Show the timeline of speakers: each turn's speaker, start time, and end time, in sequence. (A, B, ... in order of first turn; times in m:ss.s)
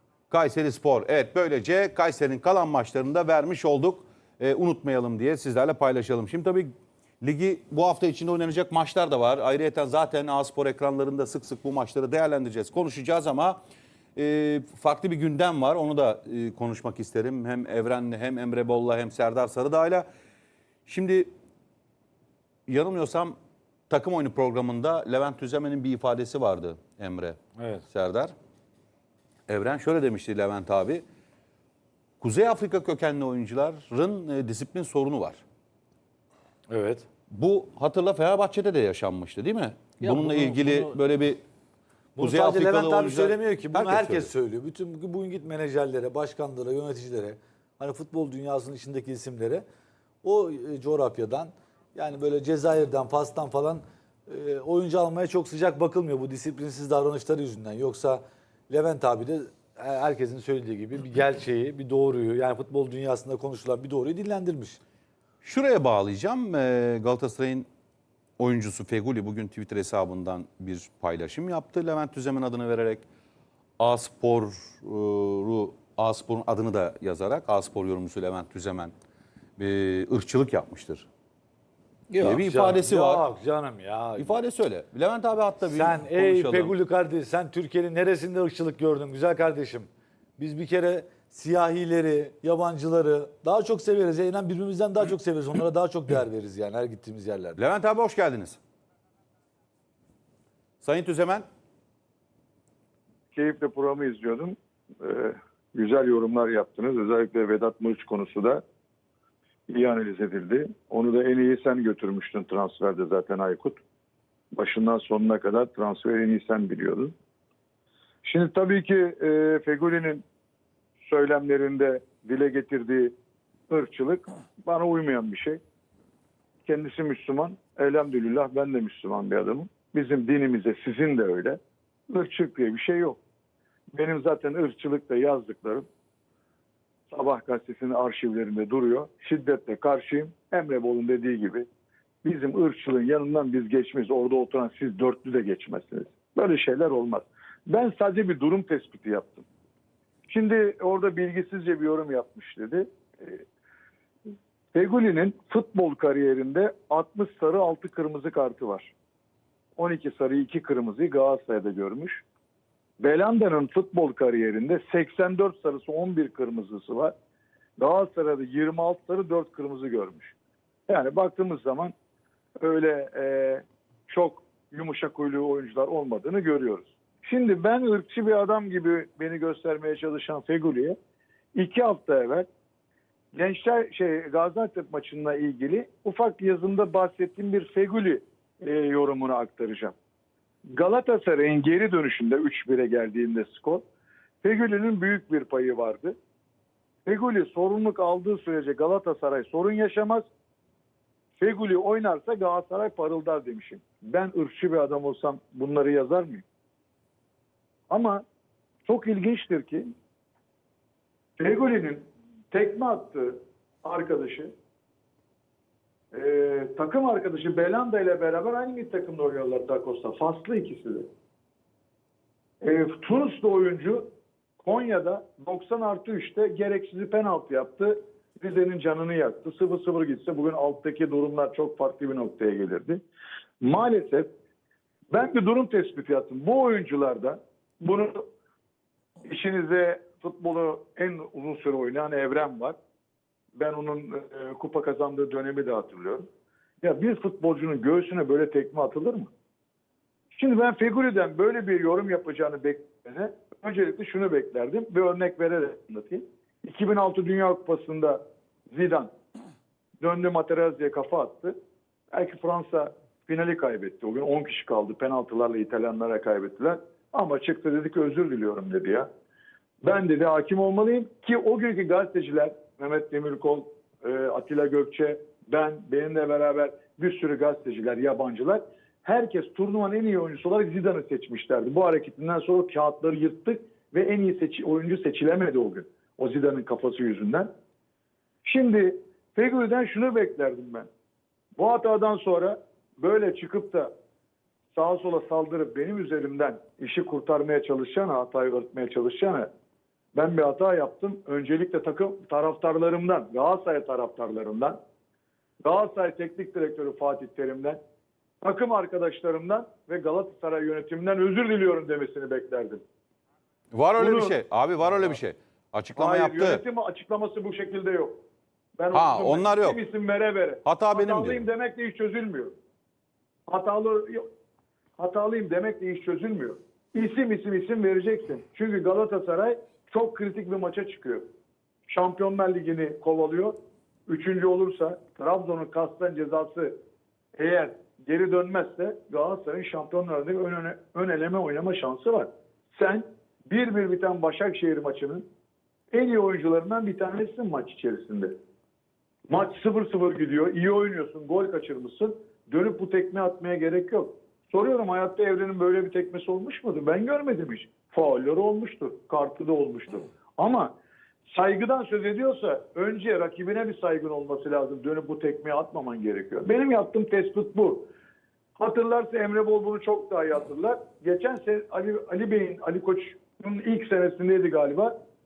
0:00.3-0:06.7 A
0:07.2-0:13.6 A
0:14.2-0:20.1 A
0:20.9-0:21.3 A
0:22.7-0:23.4 A
0:23.9-0:27.4 A
0:27.6-0:27.8 B
0:27.9-0:28.3 A
0:29.5-0:31.0 A
0:32.2-0:35.4 A
0:36.7-0:37.1 B
0:37.3-0:41.4 A
0:40.1-0:40.8 B
0:42.2-0:49.6 B
0:42.2-0:44.3 A
0:50.2-1:04.8 B
1:05.4-1:07.7 A
1:08.4-1:13.0 A
1:13.8-1:18.9 A
1:19.6-1:21.1 A
1:22.1-1:24.4 B
1:22.2-1:23.2 A
1:24.2-1:26.7 A
1:25.7-1:37.6 B
1:37.6-1:38.6 A
1:40.8-1:41.4 A
1:43.3-1:48.6 C
1:49.7-1:53.8 C
1:54.5-1:57.1 C
1:58.2-2:00.2 C
2:01.0-2:03.1 C
2:03.7-2:05.6 C
2:06.6-2:11.6 C
2:12.1-2:13.2 C
2:14.0-2:15.8 C
2:17.1-2:21.7 C
2:22.2-2:29.5 C
2:30.3-2:33.4 C
2:34.7-2:38.9 C
2:39.8-2:42.2 C
2:43.0-2:47.1 C
2:47.8-2:50.3 C
2:50.9-2:51.9 C
2:52.6-3:01.0 C
3:01.6-3:02.5 C
3:03.3-3:09.9 C
3:10.7-3:13.8 C
3:14.4-3:16.2 C
3:17.1-3:20.3 C
3:21.4-3:26.4 C
3:27.9-3:28.2 C
3:28.9-3:29.9 C
3:31.4-3:34.5 C
3:36.1-3:41.1 C
3:42.6-3:44.1 C
3:44.6-3:53.0 C
3:53.6-3:54.3 C
3:55.1-3:58.3 C
3:59.2-4:02.8 C
4:03.6-4:06.2 C
4:06.8-4:09.3 C
4:10.3-4:19.1 C
4:20.0-4:21.6 C
4:22.1-4:29.1 C
4:29.8-4:47.5 C
4:48.4-4:50.9 C
4:51.6-4:53.9 C
4:54.8-4:59.5 C
5:00.2-5:04.8 C
5:05.6-5:07.8 C
5:08.4-5:12.8 C
5:13.7-5:16.6 A
5:14.0-5:14.4 C
5:16.0-5:18.2 C
5:18.8-5:22.5 C
5:18.9-5:19.8 A
5:20.6-5:21.4 A
5:23.5-5:24.3 C
5:25.0-5:31.3 C
5:31.9-5:33.6 C
5:34.1-5:36.8 C
5:37.4-5:45.2 C
5:45.9-5:48.3 C
5:49.3-6:00.7 C
6:01.3-6:07.8 C
6:08.6-6:14.9 C